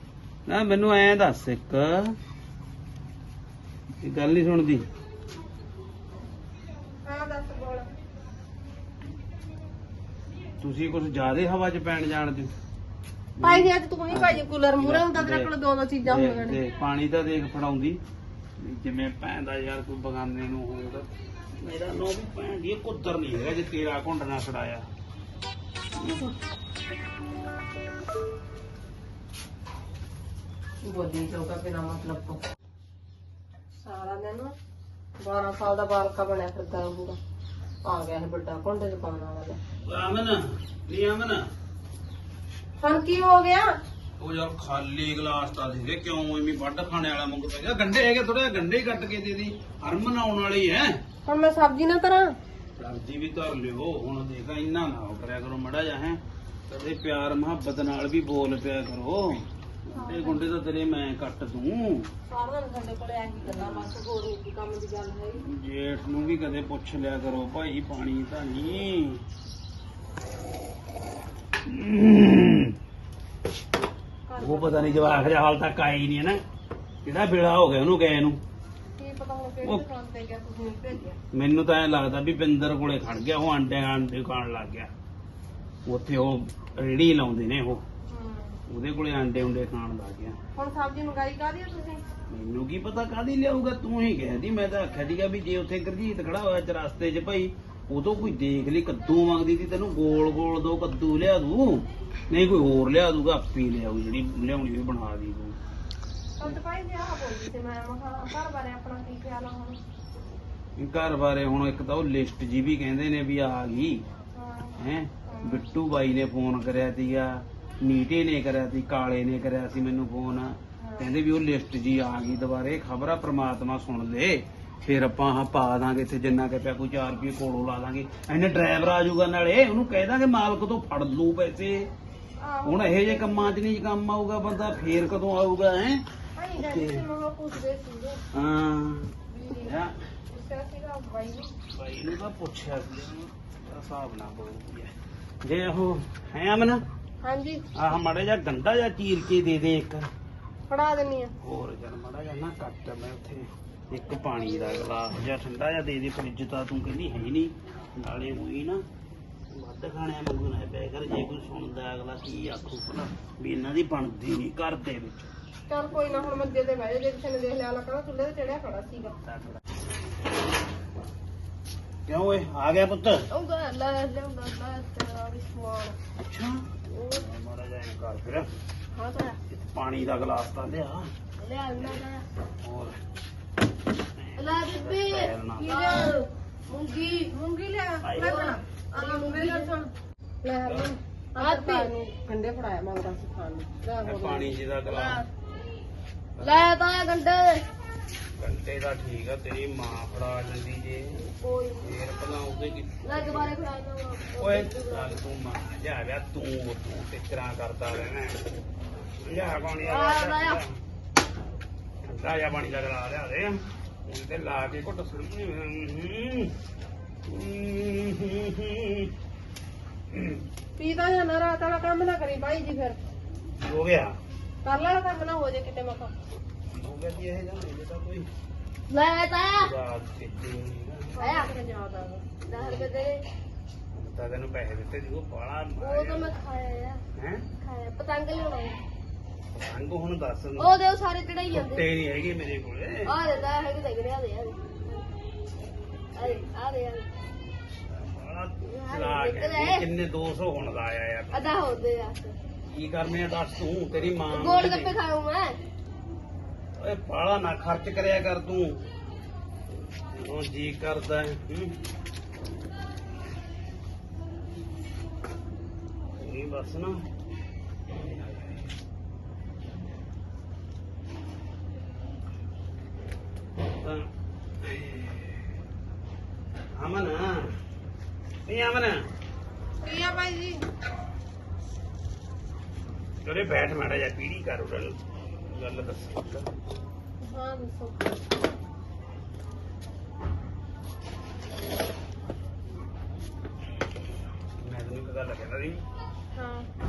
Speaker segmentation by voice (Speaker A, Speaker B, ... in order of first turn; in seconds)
Speaker A: 0.5-2.2, 4.0-4.9, 10.6-12.5, 13.4-15.5, 16.0-18.0, 18.6-24.9, 39.8-41.5, 44.2-51.0, 52.8-62.1, 63.5-64.0, 65.4-69.2, 71.6-72.8, 74.4-76.4, 77.0-78.4, 81.3-84.9, 85.8-87.8, 88.7-90.4, 92.3-105.6, 110.8-114.0, 114.8-131.9, 132.6-136.0, 136.6-137.1, 138.3-139.9, 141.7-144.9, 145.4-146.8, 147.7-150.1, 151.4-158.8, 159.5-165.3, 172.1-173.3, 176.2-178.5, 179.5-181.1, 181.8-182.0, 182.6-182.9, 184.2-186.1, 188.0-188.3, 190.7-190.9, 194.0-195.2, 196.4-196.7, 198.4-201.2, 201.8-203.5, 204.4-208.4, 209.2-210.7, 212.0-216.5, 217.3-219.1, 220.1-220.4, 223.6-224.1, 226.7-228.3, 229.5-231.2, 232.5-232.9, 233.9-236.3, 237.2-237.4, 239.5-240.7, 241.5-243.1, 246.2-246.4, 247.9-251.5, 252.7-255.0, 256.8-258.9, 260.1-261.8, 266.1-267.0, 267.9-268.6, 273.8-274.1, 274.6-275.4, 276.8-277.5, 278.5-278.9, 283.2-286.5, 294.6-295.8
Speaker B: 7.0-7.9, 13.4-16.6, 30.8-32.4, 33.8-34.5, 35.2-37.2, 37.8-39.6, 42.8-43.8, 51.2-52.3, 60.0-60.5, 62.3-65.4, 74.3-75.3, 79.0-81.2, 88.1-88.6, 90.5-92.0, 106.4-109.8, 114.3-115.7, 120.8-121.1, 132.4-133.5, 136.4-138.2, 139.3-141.5, 147.2-147.6, 150.7-151.3, 165.7-169.2, 185.6-186.2, 187.3-189.9, 190.4-194.5, 220.8-223.0, 224.6-226.1, 231.2-232.2, 279.8-280.6, 287.2-288.2, 296.3-296.7
Speaker C: 173.3-176.0, 176.9-177.3, 178.9-179.4, 181.4-182.2, 184.4-187.3, 188.1-189.7, 191.3-191.9, 194.9-195.3, 196.4-197.7, 201.2-202.0, 203.0-205.2, 209.9-210.6, 228.9-229.7, 231.2-231.5, 232.4-233.2, 235.8-237.0, 237.6-238.8, 240.6-241.8, 243.1-245.1, 246.1-247.1, 248.7-249.9, 251.3-252.4, 254.3-255.6